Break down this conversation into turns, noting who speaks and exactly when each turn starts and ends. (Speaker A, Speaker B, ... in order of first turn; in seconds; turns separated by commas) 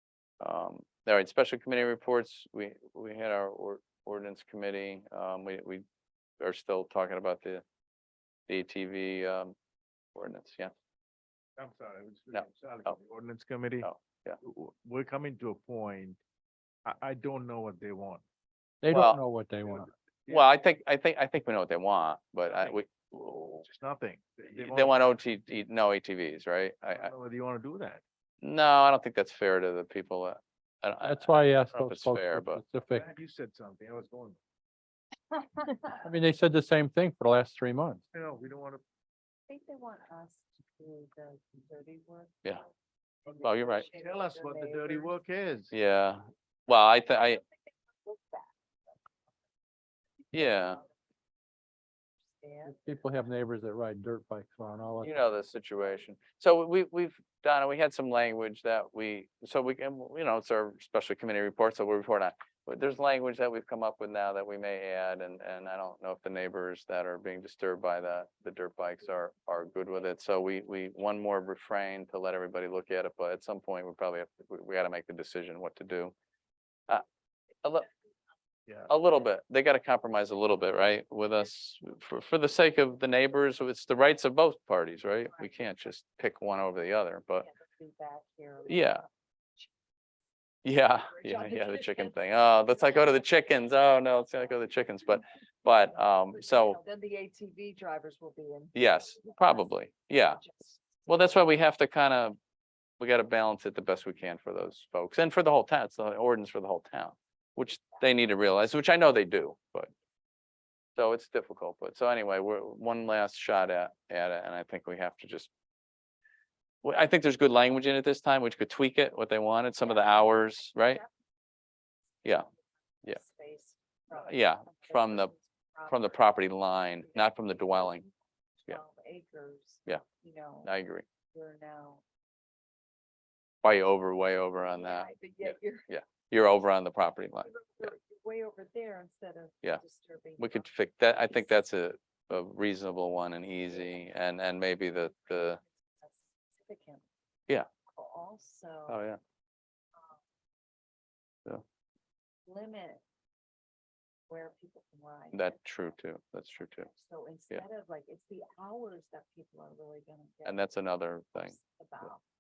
Speaker A: 0.4-5.8, Speaker A: 6.4-7.6, Speaker A: 8.5-9.5, Speaker A: 10.1-10.7, Speaker B: 11.6-13.9, Speaker A: 12.3-12.9, Speaker A: 13.8-14.4, Speaker B: 14.4-16.2, Speaker B: 16.8-18.2, Speaker C: 18.8-19.9, Speaker A: 18.9-19.2, Speaker A: 20.3-23.6, Speaker B: 23.6-25.0, Speaker A: 24.5-27.1, Speaker B: 26.9-28.0, Speaker A: 28.4-32.6, Speaker C: 31.0-33.0, Speaker B: 32.9-34.4, Speaker C: 35.9-38.0, Speaker B: 38.1-38.8, Speaker D: 39.5-42.6, Speaker D: 43.2-45.2, Speaker A: 43.4-43.9, Speaker B: 43.8-45.7, Speaker A: 45.7-47.4, Speaker D: 47.4-48.5, Speaker A: 50.3-50.8, Speaker D: 50.4-50.9, Speaker D: 52.3-52.7, Speaker C: 52.6-55.2, Speaker A: 55.0-76.1, Speaker A: 78.9-87.5, Speaker D: 87.4-89.0, Speaker A: 88.7-89.0, Speaker A: 90.6-96.8, Speaker D: 91.1-93.2, Speaker D: 96.3-101.4, Speaker A: 98.7-100.4, Speaker A: 101.1-102.3, Speaker A: 103.0-109.9, Speaker A: 111.0-115.5, Speaker A: 116.8-121.0, Speaker D: 119.8-121.1, Speaker D: 123.0-126.2, Speaker A: 124.1-125.3, Speaker A: 125.9-128.1, Speaker D: 127.1-130.7, Speaker A: 130.6-131.0, Speaker D: 131.3-132.0, Speaker A: 133.6-137.9, Speaker D: 134.7-135.9, Speaker D: 137.5-140.7, Speaker A: 140.4-145.6, Speaker D: 145.4-147.0, Speaker D: 147.9-149.0, Speaker A: 148.9-149.2, Speaker D: 152.5-153.0, Speaker D: 154.3-155.6, Speaker A: 155.3-156.9, Speaker D: 156.9-160.6, Speaker A: 160.4-162.1, Speaker D: 161.4-162.2